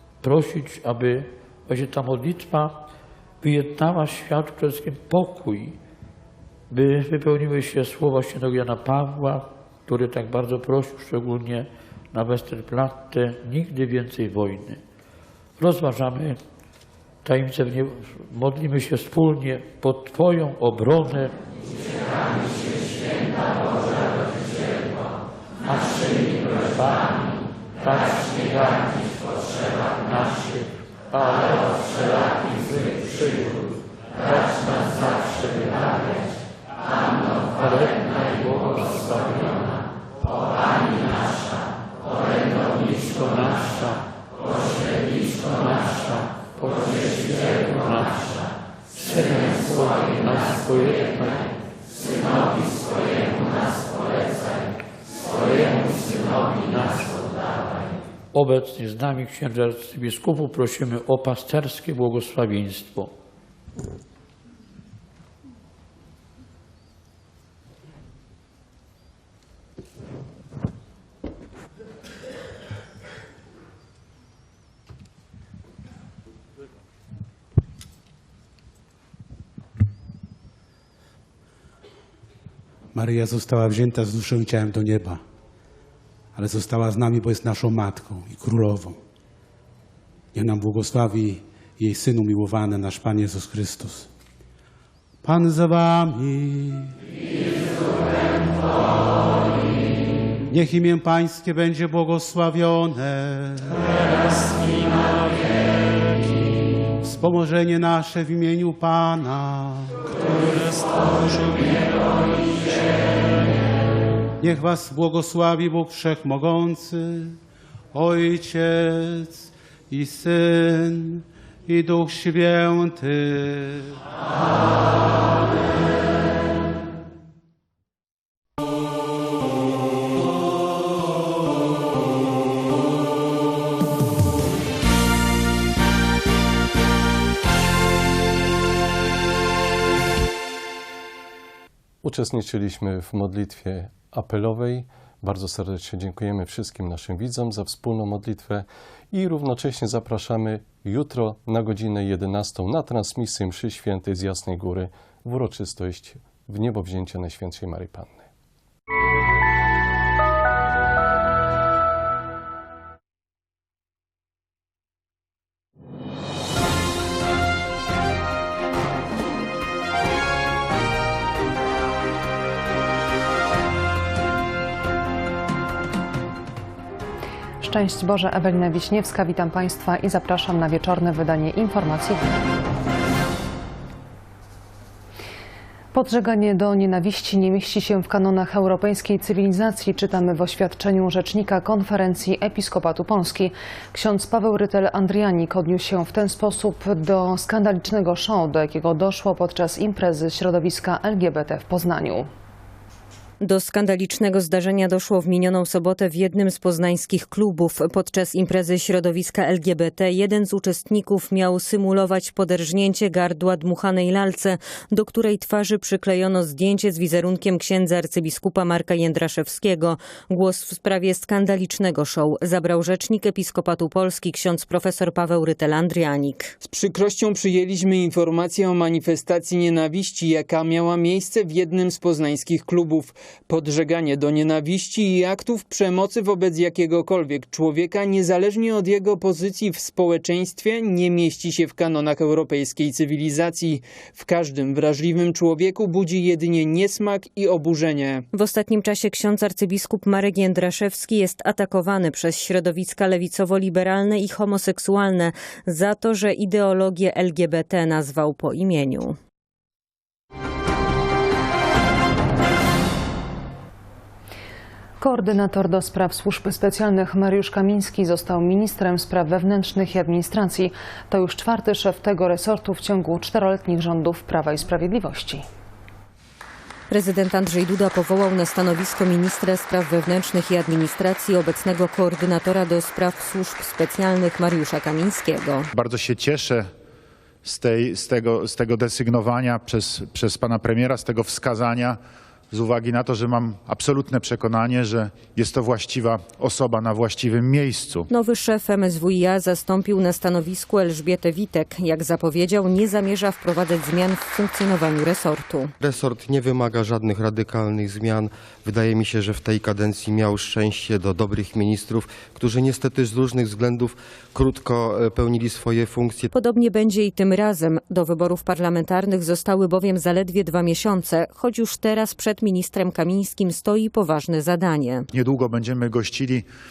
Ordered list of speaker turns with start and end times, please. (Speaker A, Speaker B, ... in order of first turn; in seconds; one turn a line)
Speaker A: 0.2-2.9
Speaker A: 3.4-5.8
Speaker A: 6.7-14.8
Speaker A: 15.6-16.4
Speaker A: 17.2-21.4
Speaker A: 25.6-27.3
Speaker A: 27.8-29.1
Speaker A: 30.0-33.7
Speaker A: 34.2-36.1
Speaker A: 37.5-39.7
Speaker A: 42.7-44.1
Speaker A: 45.3-48.4
Speaker A: 48.9-51.5
Speaker A: 55.6-57.1
Speaker A: 58.3-63.1
Speaker B: 82.9-85.2
Speaker B: 86.3-89.0
Speaker B: 90.3-94.1
Speaker B: 95.2-96.9
Speaker B: 100.5-103.8
Speaker B: 107.0-110.9
Speaker B: 111.5-111.7
Speaker B: 114.4-117.4
Speaker B: 117.9-124.0
Speaker C: 142.0-158.3
Speaker D: 177.6-182.3
Speaker D: 185.9-202.3
Speaker E: 203.4-226.5
Speaker F: 226.6-248.3
Speaker E: 248.3-259.2
Speaker D: 265.0-275.4
Speaker E: 276.9-285.7
Speaker G: 285.7-286.7
Speaker G: 287.4-292.0
Speaker G: 292.5-298.1
Speaker E: 298.1-305.7
Speaker H: 305.8-316.3
Speaker E: 316.3-325.1
Speaker G: 325.1-326.5